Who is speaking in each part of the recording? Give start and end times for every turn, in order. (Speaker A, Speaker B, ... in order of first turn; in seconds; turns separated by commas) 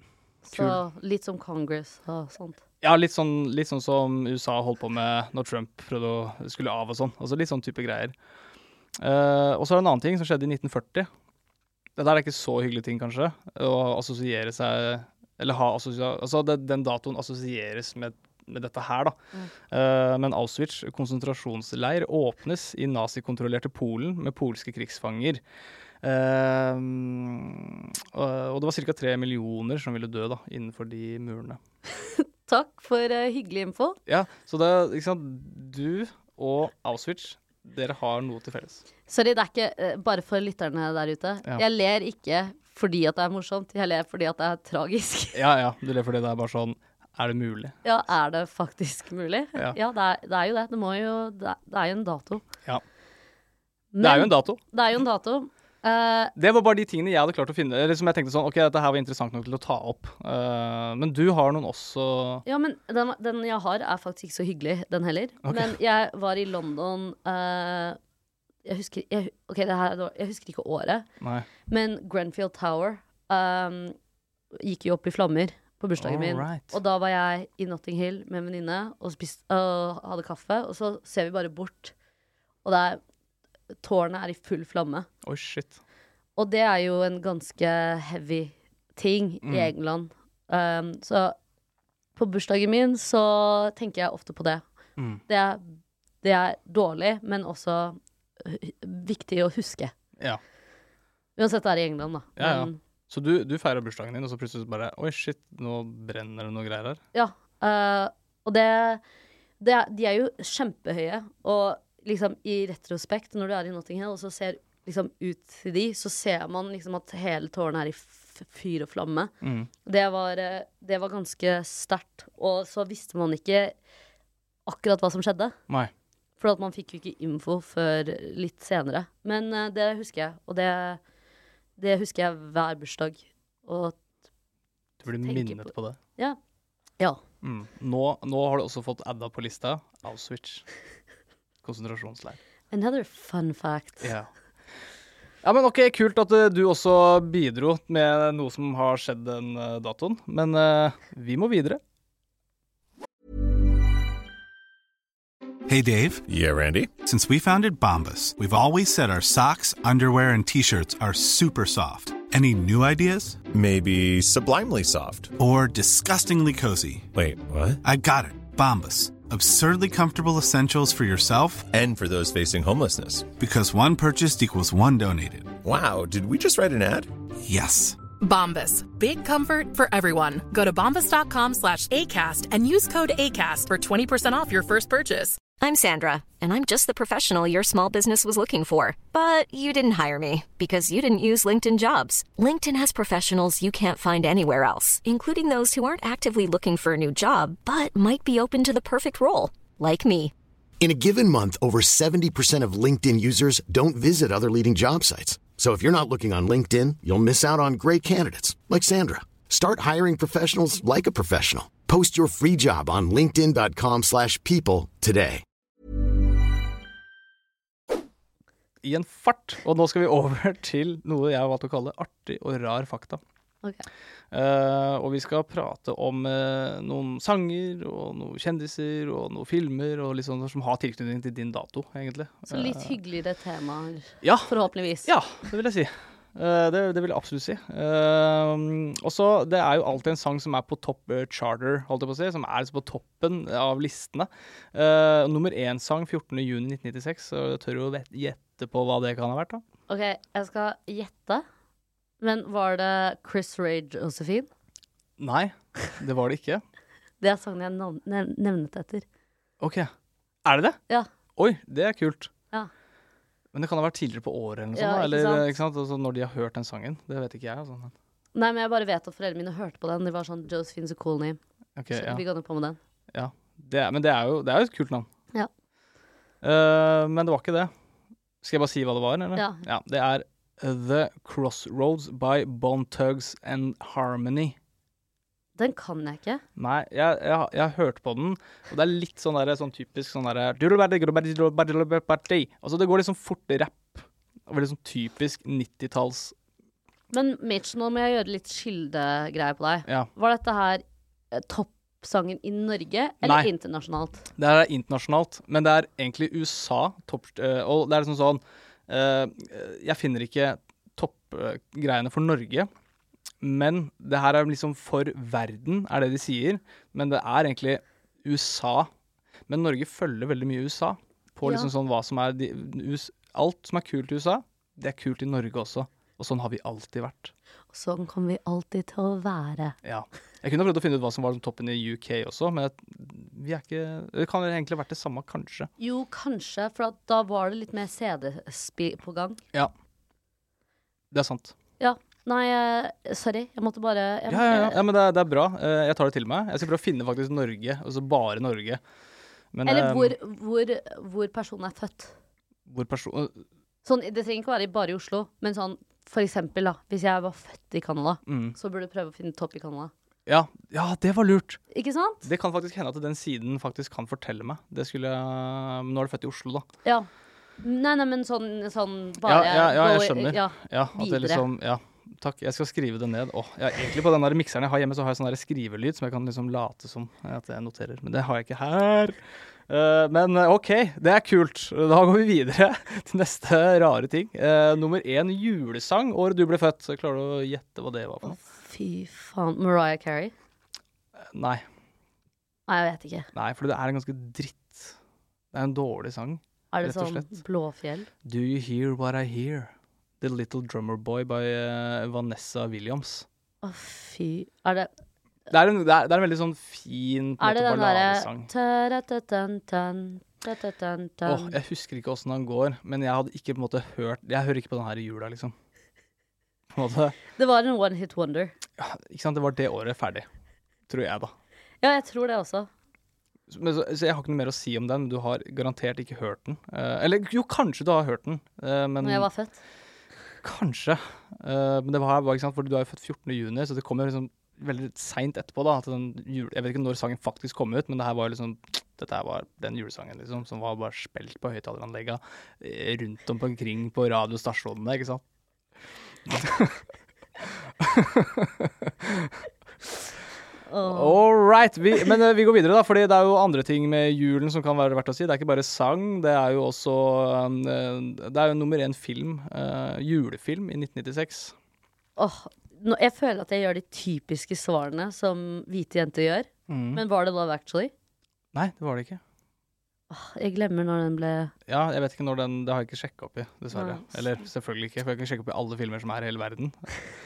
Speaker A: 0.5-2.6, Speaker B: 0.5-0.8, Speaker B: 2.8-8.2, Speaker B: 9.0-11.1, Speaker B: 12.0-19.2, Speaker B: 19.7-25.4, Speaker B: 26.0-31.6, Speaker A: 32.0-34.0, Speaker B: 34.1-38.8, Speaker A: 39.1-45.4, Speaker B: 45.3-47.8, Speaker A: 47.8-52.4, Speaker A: 53.9-56.3, Speaker B: 54.0-54.6, Speaker B: 56.4-62.5, Speaker A: 62.5-68.0, Speaker B: 65.4-65.8, Speaker A: 68.7-71.1, Speaker B: 71.2-71.5, Speaker A: 71.7-74.0, Speaker A: 74.5-81.9, Speaker B: 76.0-76.8, Speaker A: 82.6-83.0, Speaker A: 83.8-85.1, Speaker B: 85.2-85.8, Speaker A: 86.4-91.4, Speaker B: 89.4-89.7, Speaker A: 92.2-94.6, Speaker B: 95.0-95.2, Speaker A: 95.3-95.6, Speaker A: 96.2-99.9, Speaker A: 101.4-102.8, Speaker B: 102.4-107.0, Speaker A: 107.1-109.0, Speaker A: 109.6-119.3, Speaker B: 119.4-119.7, Speaker A: 119.8-123.8, Speaker A: 124.7-125.6, Speaker A: 126.4-131.0, Speaker A: 131.8-134.0, Speaker B: 135.0-136.0, Speaker A: 135.2-136.4, Speaker B: 137.4-140.7, Speaker B: 141.6-142.4, Speaker A: 142.7-144.1, Speaker B: 144.0-144.3, Speaker B: 145.4-151.8, Speaker C: 155.7-156.2, Speaker D: 156.3-156.9, Speaker C: 157.0-163.4, Speaker D: 163.5-165.3, Speaker C: 165.4-167.1, Speaker D: 167.1-167.8, Speaker C: 167.8-171.7, Speaker D: 171.7-173.3, Speaker C: 173.4-175.6, Speaker D: 175.6-177.1, Speaker C: 177.4-178.0, Speaker E: 178.2-185.4, Speaker F: 185.6-200.3, Speaker G: 200.8-215.4, Speaker B: 218.8-223.2, Speaker B: 224.3-232.9, Speaker A: 232.5-235.1, Speaker B: 234.2-249.6, Speaker A: 249.9-251.4, Speaker A: 252.2-254.5, Speaker B: 255.2-256.6, Speaker A: 257.2-259.1, Speaker B: 259.6-259.9, Speaker B: 260.4-260.8, Speaker B: 261.4-262.3, Speaker B: 263.5-267.9, Speaker A: 264.7-265.5, Speaker A: 268.4-271.4, Speaker B: 271.8-272.2, Speaker A: 271.9-272.8, Speaker B: 273.1-275.1, Speaker B: 276.4-277.7, Speaker B: 278.4-284.6, Speaker A: 279.4-279.6, Speaker A: 285.6-286.4, Speaker B: 286.6-296.4, Speaker A: 297.1-304.3, Speaker B: 303.2-303.5, Speaker B: 304.4-312.7, Speaker B: 313.4-318.9, Speaker B: 319.5-327.3, Speaker A: 321.4-321.7, Speaker A: 327.7-329.8, Speaker B: 329.8-335.7, Speaker A: 335.8-339.4, Speaker B: 341.1-341.5, Speaker A: 341.8-344.8, Speaker B: 344.3-348.8, Speaker B: 349.5-350.1, Speaker A: 349.6-352.1, Speaker B: 352.7-353.4, Speaker A: 353.9-359.9, Speaker B: 358.3-358.6, Speaker B: 360.3-361.6, Speaker A: 361.7-362.3, Speaker B: 362.2-366.7, Speaker A: 367.6-371.4, Speaker B: 369.2-379.2, Speaker B: 379.7-388.4, Speaker A: 388.2-390.3, Speaker B: 391.2-391.6, Speaker A: 392.7-393.3, Speaker B: 393.3-395.0, Speaker B: 395.5-397.4, Speaker A: 396.7-398.1, Speaker B: 398.2-403.3, Speaker A: 403.6-404.9, Speaker B: 405.5-408.5, Speaker A: 407.4-411.6, Speaker B: 411.2-415.5, Speaker B: 416.7-417.2, Speaker A: 417.4-418.6, Speaker B: 418.8-420.3, Speaker B: 420.9-421.3, Speaker A: 421.8-422.7, Speaker B: 423.5-429.3, Speaker A: 429.0-429.6, Speaker B: 430.4-445.2, Speaker B: 446.3-446.8, Speaker B: 447.5-449.4, Speaker A: 450.7-451.2, Speaker B: 450.8-461.6, Speaker A: 462.2-467.9, Speaker B: 466.7-467.0, Speaker B: 468.5-469.2, Speaker A: 470.1-471.5, Speaker B: 471.7-476.9, Speaker A: 473.7-474.2